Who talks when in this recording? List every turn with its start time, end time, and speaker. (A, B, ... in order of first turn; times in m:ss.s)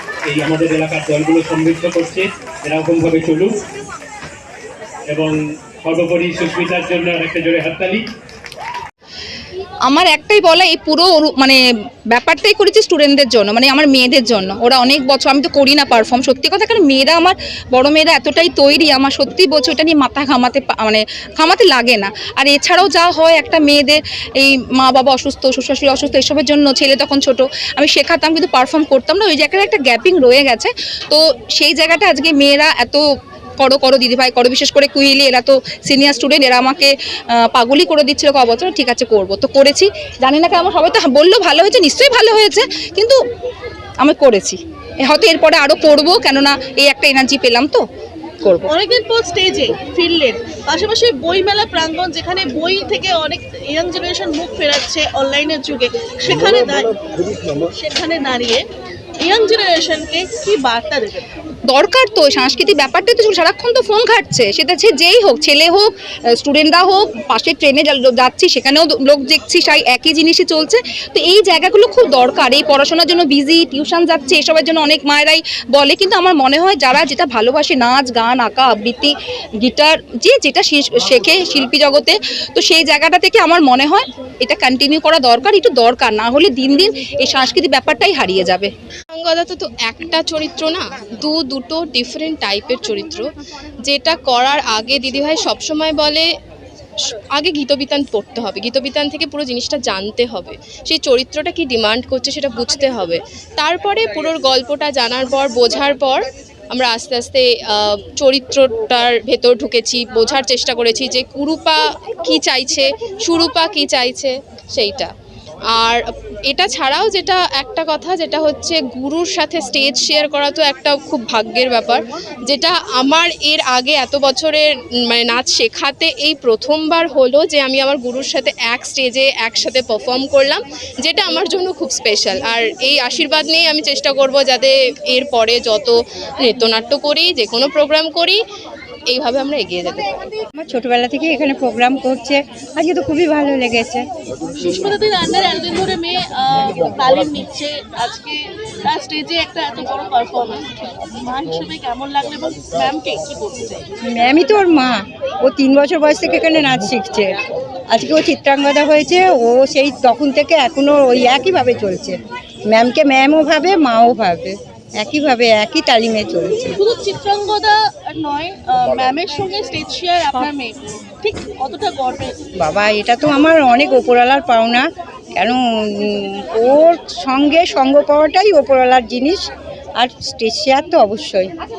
0:00.3-0:03.5 A
0:05.1-0:08.1 A
0:09.9-0:11.6 B
0:12.1-0:33.0 B
0:33.6-0:43.2 B
0:44.0-0:47.8 B
0:48.7-0:57.0 C
0:57.6-0:58.6 C
0:59.2-1:01.3 C
1:01.7-1:28.7 B
1:29.1-1:33.3 D
1:33.9-1:36.3 D
1:37.4-1:55.1 D
1:55.7-2:18.4 D
2:19.1-2:20.1 D
2:20.6-2:24.0 E
2:24.6-2:33.9 C
2:34.0-2:37.4 E
2:37.9-2:42.2 E
2:42.7-2:46.8 E
2:46.7-2:52.3 C
2:52.6-2:54.8 E
2:55.4-2:59.5 E
3:00.0-3:01.5 E